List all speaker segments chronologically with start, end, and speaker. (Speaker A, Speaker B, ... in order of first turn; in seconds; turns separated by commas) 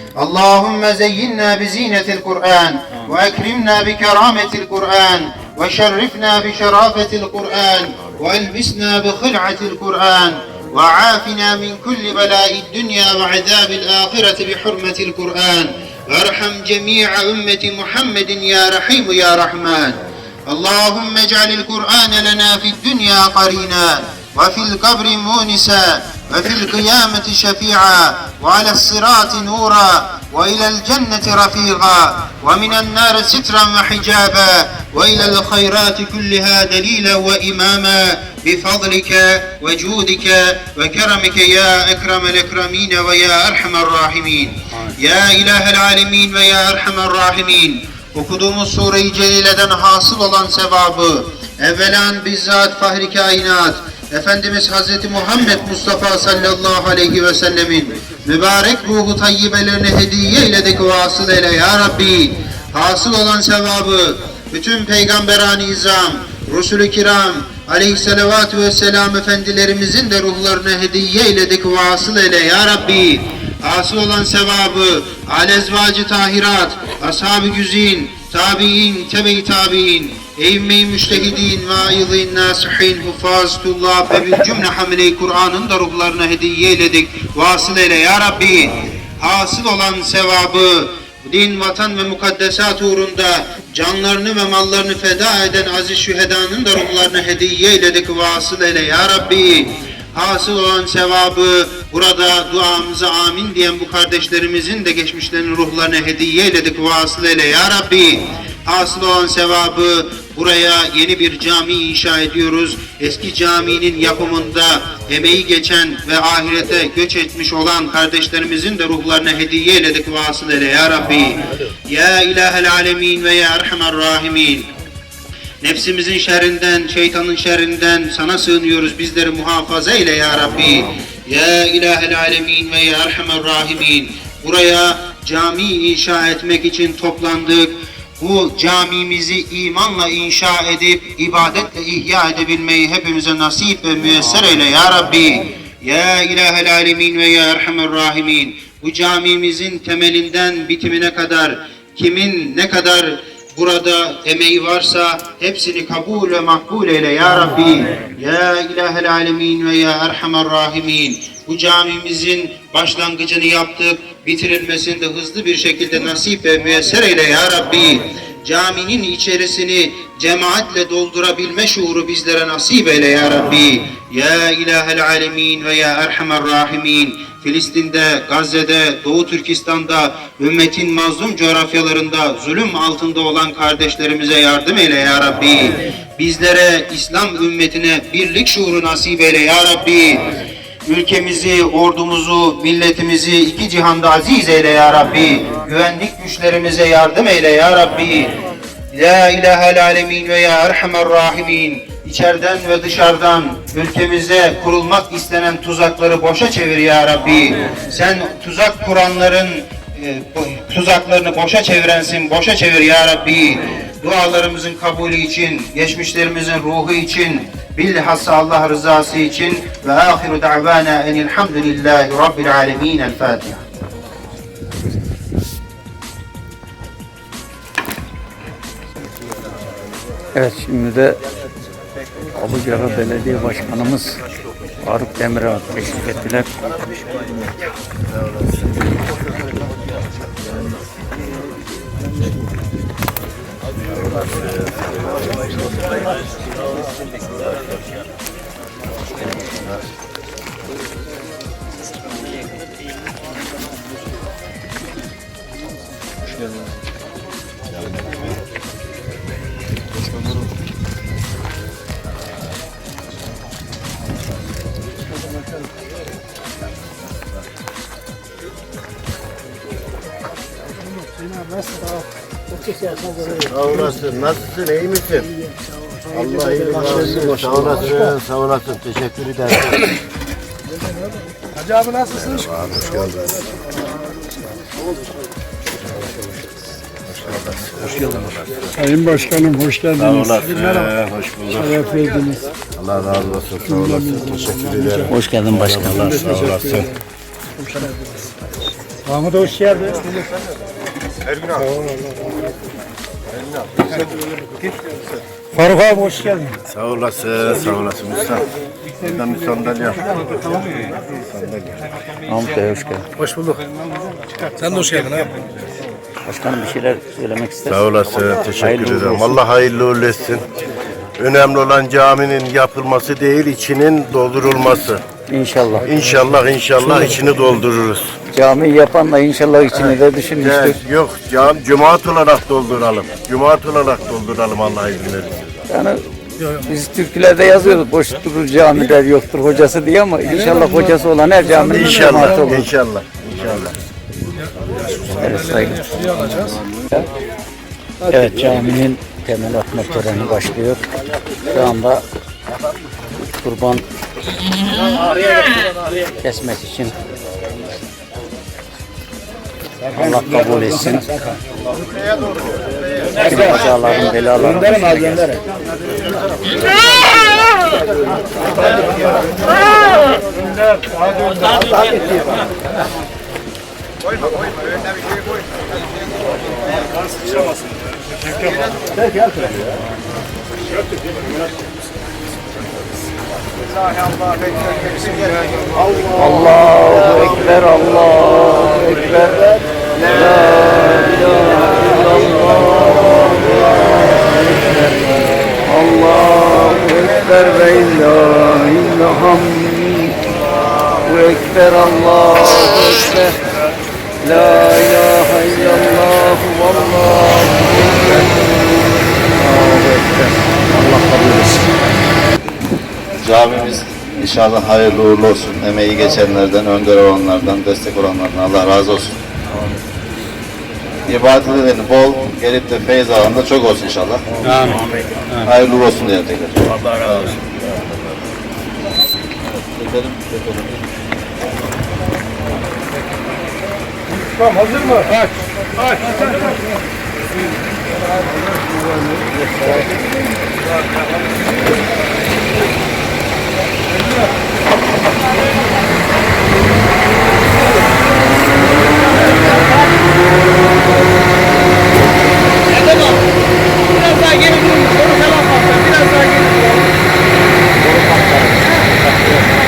Speaker A: 0.2-124.7, Speaker A: 125.6-190.3, Speaker A: 190.9-198.3, Speaker A: 198.9-223.6, Speaker B: 230.3-231.2, Speaker B: 232.4-234.2, Speaker B: 234.8-236.5, Speaker C: 273.4-275.3, Speaker C: 276.1-279.9, Speaker C: 282.1-283.4, Speaker C: 287.1-288.4, Speaker D: 288.8-290.1, Speaker C: 290.0-291.9, Speaker D: 291.7-292.5, Speaker C: 292.7-296.9, Speaker D: 294.0-294.3, Speaker B: 295.1-296.2, Speaker D: 299.1-300.0, Speaker C: 301.3-301.6, Speaker D: 305.6-306.6, Speaker C: 306.7-308.4, Speaker C: 309.0-311.8, Speaker B: 312.2-313.0, Speaker D: 313.2-313.6, Speaker D: 314.5-315.3, Speaker B: 316.2-317.9, Speaker C: 317.7-320.4, Speaker B: 318.5-319.4, Speaker C: 321.2-325.0, Speaker B: 325.3-325.9, Speaker C: 325.9-328.1, Speaker B: 328.3-330.8, Speaker C: 330.4-335.6, Speaker B: 335.7-342.6, Speaker C: 341.6-343.8, Speaker B: 345.1-346.1, Speaker B: 348.1-350.8, Speaker B: 351.5-352.0, Speaker B: 353.3-353.8, Speaker B: 356.2-356.9, Speaker B: 359.9-361.1, Speaker B: 363.2-365.4, Speaker B: 386.1-400.2, Speaker B: 401.0-403.4, Speaker B: 404.2-408.4, Speaker B: 409.3-411.7, Speaker E: 413.2-419.2, Speaker E: 421.1-424.9, Speaker B: 424.4-424.8, Speaker E: 425.4-428.2, Speaker E: 429.6-430.8, Speaker D: 434.6-435.0, Speaker B: 457.8-459.4